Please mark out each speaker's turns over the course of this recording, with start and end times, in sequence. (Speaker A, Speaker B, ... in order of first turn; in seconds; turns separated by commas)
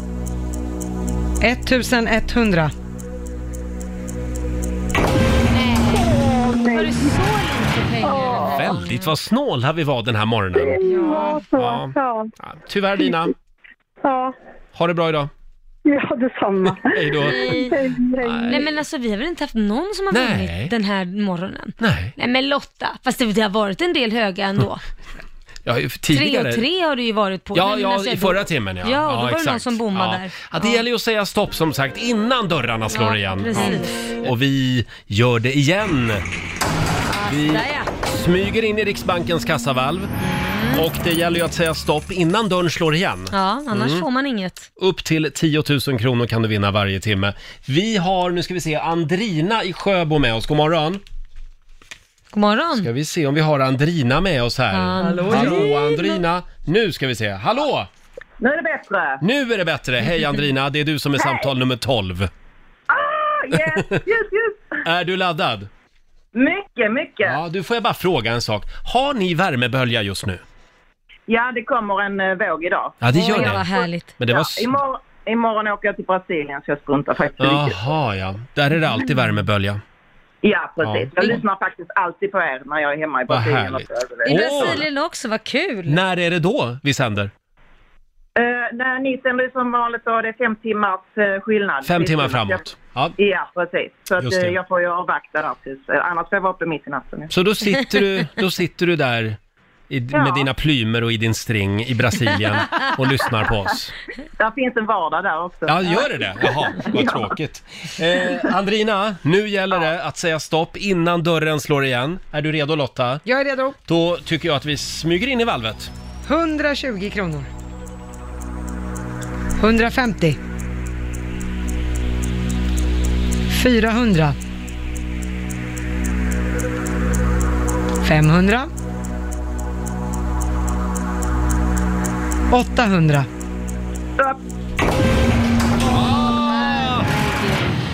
Speaker A: 1.4-2.7, Speaker B: 5.5-9.1, Speaker C: 5.9-7.2, Speaker C: 8.0-8.7, Speaker D: 8.6-10.8, Speaker C: 10.6-12.3, Speaker A: 10.8-11.4, Speaker D: 11.6-13.3, Speaker C: 14.0-14.3, Speaker D: 14.8-15.3, Speaker C: 15.9-18.6, Speaker D: 16.7-17.4, Speaker B: 17.2-17.8, Speaker D: 18.2-18.7, Speaker B: 18.5-24.8, Speaker D: 20.1-20.7, Speaker D: 21.8-22.1, Speaker D: 25.6-26.6, Speaker B: 26.1-30.8, Speaker D: 27.5-36.2, Speaker B: 32.9-34.0, Speaker A: 33.6-33.8, Speaker B: 37.1-37.9, Speaker D: 37.2-40.1, Speaker B: 40.2-40.9, Speaker D: 40.7-44.0, Speaker B: 43.3-44.7, Speaker D: 44.8-51.0, Speaker B: 52.3-52.9, Speaker D: 52.8-57.9, Speaker B: 54.7-56.1, Speaker A: 55.0-55.7, Speaker E: 58.4-59.2, Speaker D: 59.2-62.3, Speaker E: 61.2-61.5, Speaker E: 62.9-64.8, Speaker D: 63.7-64.0, Speaker D: 64.8-65.7, Speaker E: 66.3-67.4, Speaker D: 67.2-70.4, Speaker E: 71.3-77.8, Speaker D: 73.0-73.7, Speaker B: 73.1-74.1, Speaker D: 74.2-74.7, Speaker D: 77.4-79.8, Speaker E: 80.4-84.8, Speaker D: 80.8-81.4, Speaker D: 83.3-84.8, Speaker B: 84.2-86.0, Speaker D: 85.9-87.3, Speaker E: 88.4-97.3, Speaker D: 91.8-93.2, Speaker D: 94.2-94.6, Speaker D: 97.3-99.4, Speaker D: 99.9-103.9, Speaker E: 100.1-100.5, Speaker E: 104.4-107.3, Speaker D: 105.7-113.2, Speaker A: 113.2-113.8, Speaker D: 113.9-115.9, Speaker A: 116.3-117.5, Speaker A: 119.6-120.4, Speaker A: 123.5-124.4, Speaker A: 128.0-128.7, Speaker A: 132.5-133.3, Speaker D: 135.9-137.1, Speaker B: 136.4-137.7